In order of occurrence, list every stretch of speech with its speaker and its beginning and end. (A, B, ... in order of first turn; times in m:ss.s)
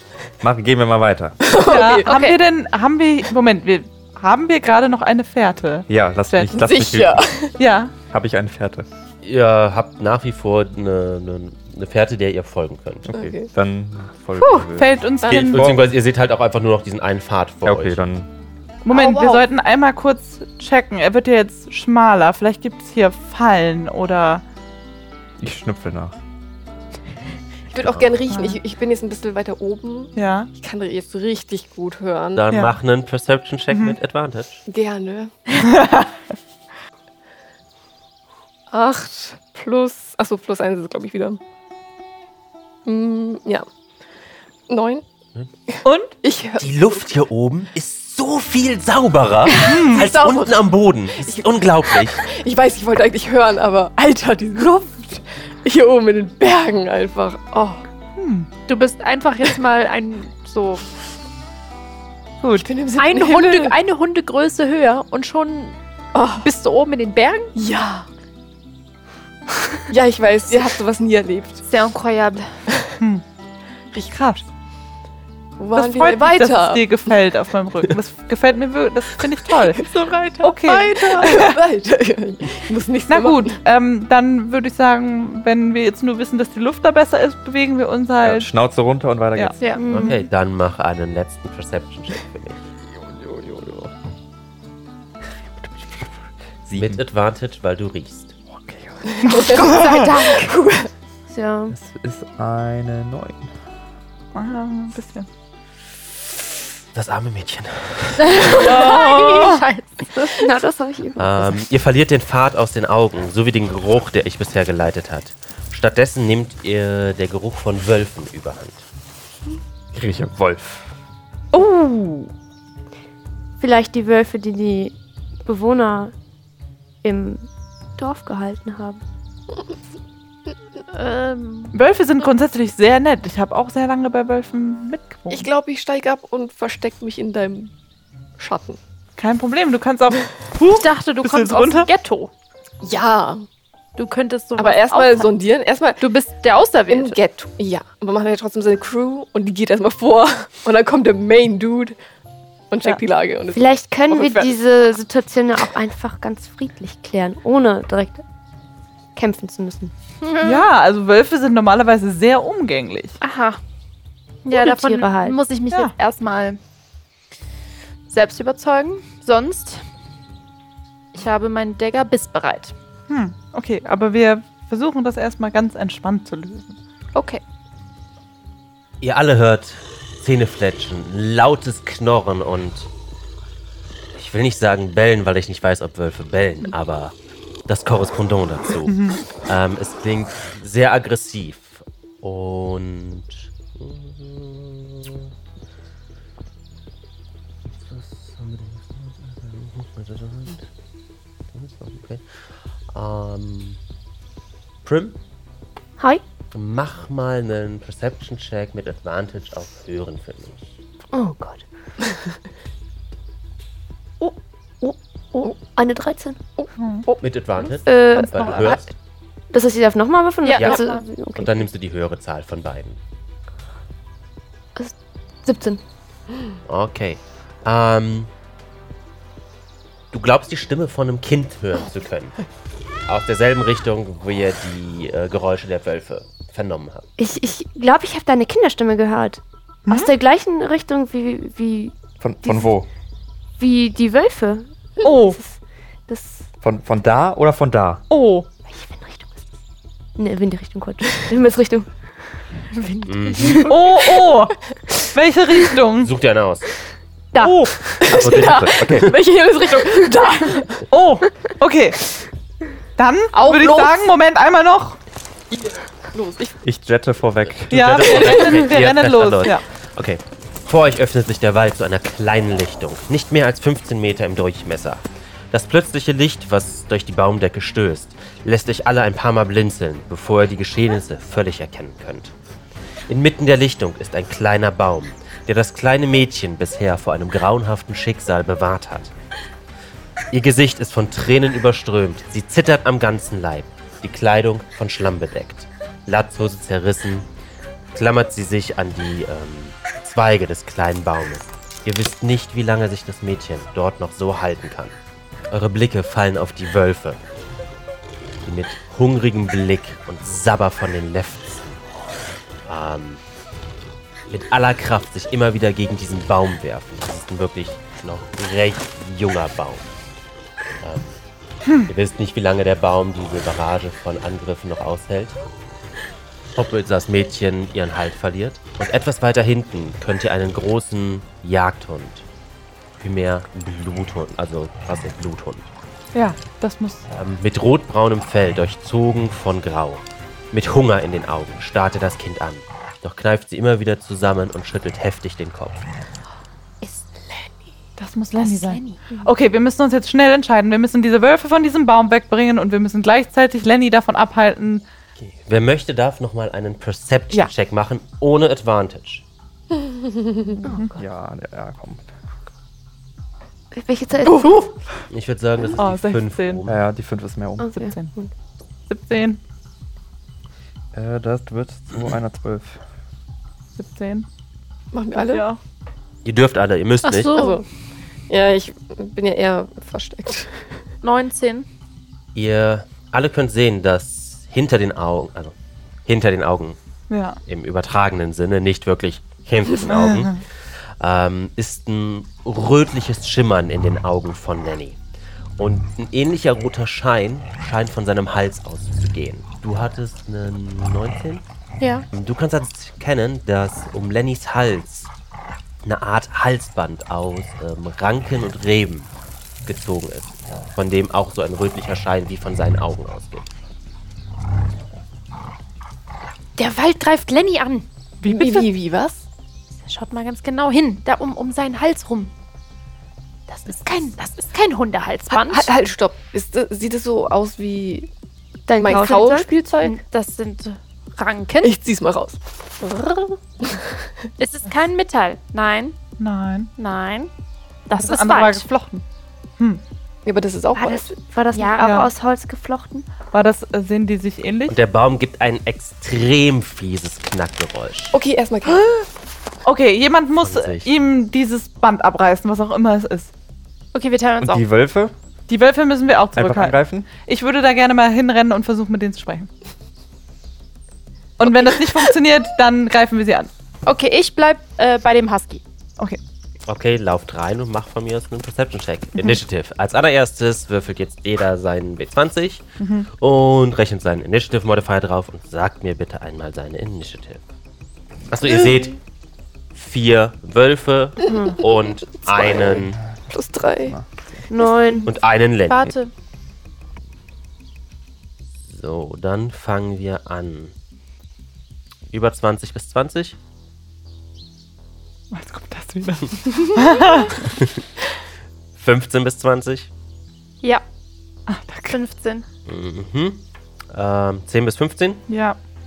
0:00.4-0:01.4 A
0:01.4-0:02.1 B
0:01.6-0:06.5 C
0:02.0-0:02.4 D
0:05.9-0:07.3 A
0:06.5-0:07.5 B
0:07.6-0:07.9 C
0:08.1-0:08.8 A
0:09.2-0:13.1 E
0:13.1-0:15.9 A
0:13.1-0:13.5 B
0:14.4-0:14.7 B
0:14.8-0:15.6 C
0:15.2-0:15.5 B
0:15.3-0:18.0 E
0:17.6-0:18.3 A
0:18.8-0:24.4 C
0:19.0-0:19.3 B
0:25.4-0:26.2 A
0:27.7-0:32.4 B
0:28.3-0:28.6 C
0:30.2-0:30.5 C
0:32.3-0:34.6 E
0:34.7-0:35.5 B
0:35.6-0:36.1 C
0:38.7-0:41.4 B
0:42.8-0:43.7 B
0:44.7-0:45.0 B
0:45.7-0:46.9 B
0:45.8-0:46.1 C
0:46.6-0:52.2 E
0:49.5-0:50.6 B
0:49.6-0:50.0 C
0:51.2-0:57.8 B
0:58.2-0:58.5 C
0:58.7-1:00.8 D
1:02.6-1:03.8 B
1:03.0-1:05.8 D
1:06.1-1:06.5 B
1:06.4-1:07.5 D
1:07.5-1:08.1 B
1:09.9-1:11.6 B
1:11.6-1:12.5 D
1:13.9-1:14.4 C
1:15.6-1:16.9 B
1:15.7-1:19.9 C
1:19.5-1:23.6 B
1:20.4-1:21.6 C
1:23.1-1:28.5 C
1:28.2-1:29.6 A
1:29.6-1:30.1 D
1:29.8-1:30.2 F
1:29.8-1:32.6 E
1:33.2-1:33.9 A
1:35.5-1:37.0 A
1:36.8-1:38.3 E
1:38.5-1:39.1 A
1:39.1-1:40.9 B
1:39.4-1:39.8 C
1:39.4-1:40.5 D
1:41.3-1:41.7 F
1:41.7-1:43.5 A
1:44.3-1:45.3 C
1:46.9-1:48.6 E
1:48.3-1:50.0 D
1:50.2-1:51.6 F
1:51.2-1:58.8 E
1:59.9-2:00.9 A
2:01.5-2:02.0 C
2:03.6-2:04.9 F
2:05.4-2:06.1 F
2:07.0-2:09.0 F
2:10.9-2:11.8 D
2:11.7-2:15.5 C
2:15.3-2:17.7 B
2:18.4-2:18.8 B
2:19.2-2:21.9 C
2:20.7-2:22.3 D
2:22.8-2:23.4 B
2:24.0-2:25.3 D
2:24.6-2:26.0 B
2:26.0-2:27.2 D
2:26.9-2:32.0 B
2:32.7-2:34.5 B
2:33.5-2:38.2 F
2:39.1-2:39.9 F
2:40.2-2:40.7 D
2:40.4-2:43.2 C
2:43.2-2:43.6 D
2:44.4-2:46.6 D
2:44.5-2:45.4 F
2:48.1-2:49.8 D
2:51.1-2:52.7 D
2:53.1-2:56.8 C
2:57.1-2:57.4 D
2:59.0-3:02.9 E
3:04.2-3:07.1 E
3:07.7-3:15.3 E
3:17.9-3:20.7 E
3:21.5-3:22.2 E
3:22.9-3:23.8 E
3:24.8-3:25.2 E
3:26.5-3:30.7 E
3:31.1-3:31.6 F
3:34.2-3:36.4 F
3:36.6-3:37.2 B
3:36.8-3:37.0 C
3:37.2-3:38.8 E
3:37.8-3:38.8 F
3:39.5-3:41.7 F
3:40.4-3:41.0 D
3:40.6-3:40.8 E
3:41.3-3:43.0 E
3:44.8-3:45.8 F
3:46.7-3:48.3 E
3:50.1-3:52.4 E
3:53.1-3:57.1 E
3:57.2-4:02.7 F
3:59.9-4:00.1 C
4:02.2-4:02.9 A
4:03.6-4:05.6 F
4:05.0-4:05.4 C
4:06.1-4:06.5 F
4:06.6-4:08.0 A
4:08.1-4:08.5 C
4:08.6-4:09.4 F
4:10.2-4:11.9 F
4:12.8-4:13.8 F
4:13.0-4:13.7 E
4:13.6-4:14.6 C
4:15.1-4:16.1 C
4:16.0-4:16.7 E
4:17.3-4:17.7 F
4:17.4-4:17.8 C
4:17.8-4:20.9 B
4:18.1-4:19.1 A
4:18.1-4:19.1 E
4:20.8-4:22.1 C
4:23.0-4:25.0 C
4:23.4-4:23.8 B
4:25.5-4:26.6 B
4:26.6-4:28.0 A
4:27.7-4:42.3 E
4:27.7-4:29.6 C
4:28.1-4:28.6 B
4:43.1-4:49.1 E
4:50.3-4:57.3 E
4:57.9-5:04.9 E
5:05.5-5:07.2 E
5:08.4-5:11.8 E
5:12.6-5:13.2 E
5:14.3-5:19.9 E
5:20.8-5:21.1 E
5:21.8-5:25.4 E
5:26.6-5:32.3 E
5:33.0-5:35.6 E
5:36.1-5:37.0 C
5:37.1-5:45.8 E
5:46.8-5:47.5 D
5:48.0-5:54.8 C
5:48.4-5:49.2 D
5:55.2-5:59.2 E
5:59.7-6:00.5 B
6:00.6-6:00.9 C
6:00.6-6:01.0 F
6:00.9-6:02.0 A
6:03.7-6:04.7 F
6:04.3-6:04.6 B
6:05.1-6:06.8 E
6:05.8-6:06.6 C
6:06.7-6:07.7 A
6:07.6-6:08.3 F
6:07.7-6:08.2 C
6:08.9-6:09.4 C
6:10.9-6:12.8 A
6:13.8-6:14.2 C
6:14.9-6:15.5 B
6:15.3-6:15.6 C
6:16.2-6:17.3 E
6:17.2-6:17.6 F
6:17.3-6:17.6 B
6:18.3-6:20.8 B
6:21.0-6:21.7 D
6:22.3-6:25.5 E
6:26.0-6:26.8 E
6:27.1-6:27.4 C
6:27.4-6:30.4 E
6:31.0-6:35.0 E
6:35.6-6:41.4 E
6:41.8-6:42.0 D
6:42.1-6:45.1 E
6:45.8-6:49.1 E
6:49.6-6:53.5 E
6:56.6-6:57.9 D
6:58.2-6:58.6 C
6:58.2-6:59.2 B
6:59.8-7:02.3 D
7:03.5-7:05.7 D
7:05.3-7:08.1 B
7:08.7-7:09.5 F
7:08.8-7:10.0 B
7:08.9-7:11.7 D
7:11.6-7:14.3 B
7:14.4-7:16.0 D
7:16.2-7:16.7 C
7:16.8-7:17.3 D
7:17.9-7:18.7 D
7:18.0-7:19.0 C
7:20.2-7:21.2 B
7:20.7-7:23.1 F
7:21.5-7:22.0 D
7:21.8-7:22.1 C
7:23.3-7:24.8 C
7:24.7-7:28.2 E
7:28.1-7:29.0 B
7:29.6-7:33.3 C
7:30.4-7:30.9 E
7:33.9-7:34.6 D
7:34.4-7:35.1 A
7:35.5-7:39.5 C
7:36.3-7:37.1 A
7:41.4-7:43.5 C
7:43.8-7:45.6 D
7:46.7-7:57.4 E
7:52.8-7:53.1 C
7:58.3-7:59.0 E
7:59.7-8:03.0 E
8:01.3-8:01.6 F
8:02.7-8:04.5 A
8:03.3-8:04.0 B
8:04.5-8:05.1 F
8:04.6-8:06.1 D
8:05.0-8:05.9 E
8:08.7-8:10.7 E
8:12.1-8:13.4 E
8:15.3-8:17.4 C
8:17.5-8:17.8 E
8:18.8-8:19.9 E
8:21.5-8:22.0 C
8:21.9-8:22.4 D
8:22.6-8:25.2 E
8:25.3-8:25.6 C